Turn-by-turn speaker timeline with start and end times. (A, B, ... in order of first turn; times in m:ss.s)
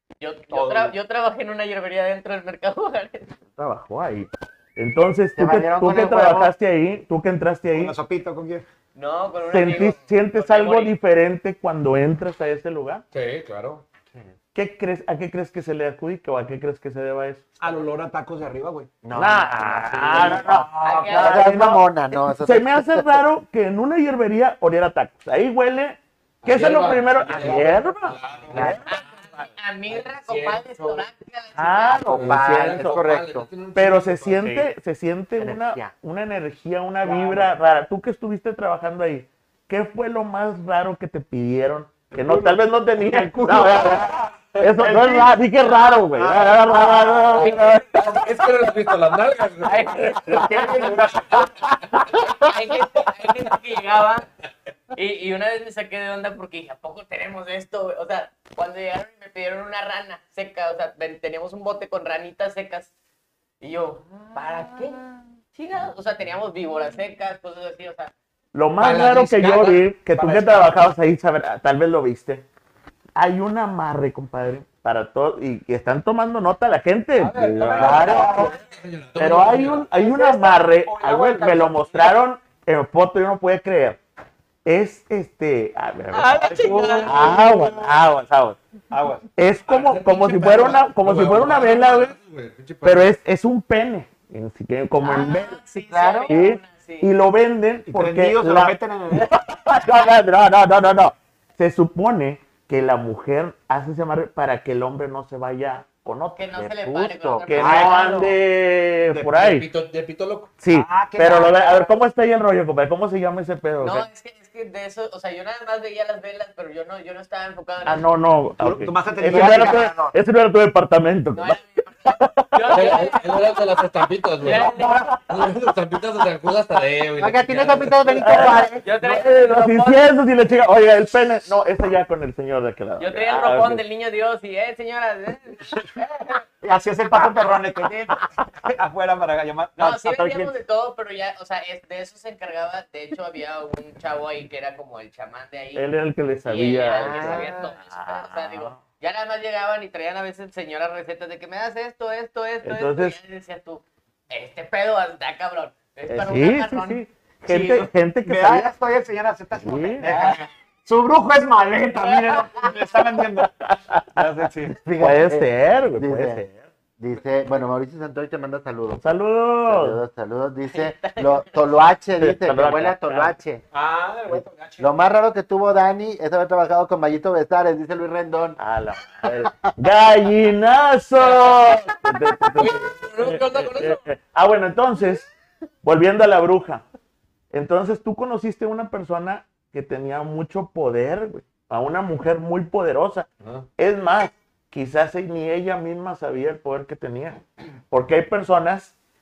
0:00.2-0:03.3 A
0:00.5-0:00.9 B
0:03.6-0:08.0 C
0:05.3-0:06.5 D
0:07.7-0:08.6 B
0:08.9-0:10.9 A
0:09.4-0:13.0 C
0:13.1-0:13.8 E
0:14.5-0:17.4 C
0:17.6-0:19.0 B
0:19.0-0:23.2 D
0:19.1-0:28.9 C
0:20.0-0:21.2 B
0:20.8-0:21.5 A
0:26.4-0:31.0 E
0:26.6-0:27.7 B
0:28.5-0:28.8 D
0:28.8-0:32.3 A
0:31.6-0:33.0 C
0:32.1-0:34.7 E
0:32.2-0:33.5 D
0:33.7-0:48.2 C
0:35.4-0:35.9 D
0:37.0-0:37.5 B
0:42.1-0:45.4 B
0:46.0-0:47.5 B
0:47.4-0:47.8 A
0:47.9-0:50.1 E
0:49.6-0:50.9 A
0:50.2-0:51.5 B
0:52.2-0:54.2 A
0:54.9-1:02.9 A
1:03.6-1:08.1 A
1:08.5-1:12.4 C
1:08.8-1:10.8 B
1:13.2-1:18.5 C
1:17.2-1:18.6 B
1:17.6-1:19.8 E
1:17.8-1:18.2 D
1:19.2-1:24.0 C
1:19.9-1:22.1 B
1:24.6-1:26.4 C
1:26.1-1:27.2 A
1:26.3-1:28.0 B
1:27.0-1:28.6 C
1:28.9-1:29.2 B
1:29.4-1:32.1 C
1:29.6-1:33.1 E
1:32.8-1:35.6 C
1:35.0-1:37.1 A
1:35.8-1:36.3 D
1:36.3-1:49.6 C
1:37.9-1:39.3 B
1:46.4-1:48.3 A
1:47.2-1:47.5 D
1:47.6-1:48.3 B
1:49.1-1:49.5 B
1:49.4-1:50.5 E
1:50.6-1:54.1 C
1:50.7-1:52.0 B
1:53.8-1:58.0 A
1:57.8-2:03.1 C
1:58.6-2:00.1 B
1:59.3-2:00.1 D
2:01.3-2:03.7 A
2:02.7-2:04.7 E
2:04.4-2:05.1 A
2:04.5-2:05.0 B
2:04.8-2:05.2 C
2:05.3-2:08.1 E
2:07.2-2:08.8 D
2:08.2-2:13.8 C
2:08.4-2:10.0 A
2:13.0-2:16.4 A
2:16.6-2:20.5 B
2:19.8-2:25.8 A
2:25.7-2:28.8 C
2:26.4-2:37.9 A
2:26.9-2:27.7 D
2:32.6-2:33.2 C
2:36.1-2:38.7 C
2:38.2-2:43.5 B
2:39.6-2:40.1 C
2:40.0-2:40.4 A
2:42.0-2:42.4 A
2:43.6-2:44.2 C
2:44.1-2:44.8 B
2:44.8-2:46.4 D
2:45.0-2:46.7 C
2:47.0-2:49.0 D
2:49.0-2:50.0 C
2:49.6-2:53.6 D
2:50.7-2:51.8 A
2:52.2-2:53.3 C
2:53.7-2:54.9 B
2:54.3-2:58.6 D
2:58.6-3:05.2 C
2:59.2-2:59.7 D
3:02.6-3:04.0 E
3:05.8-3:06.8 C
3:07.5-3:18.9 C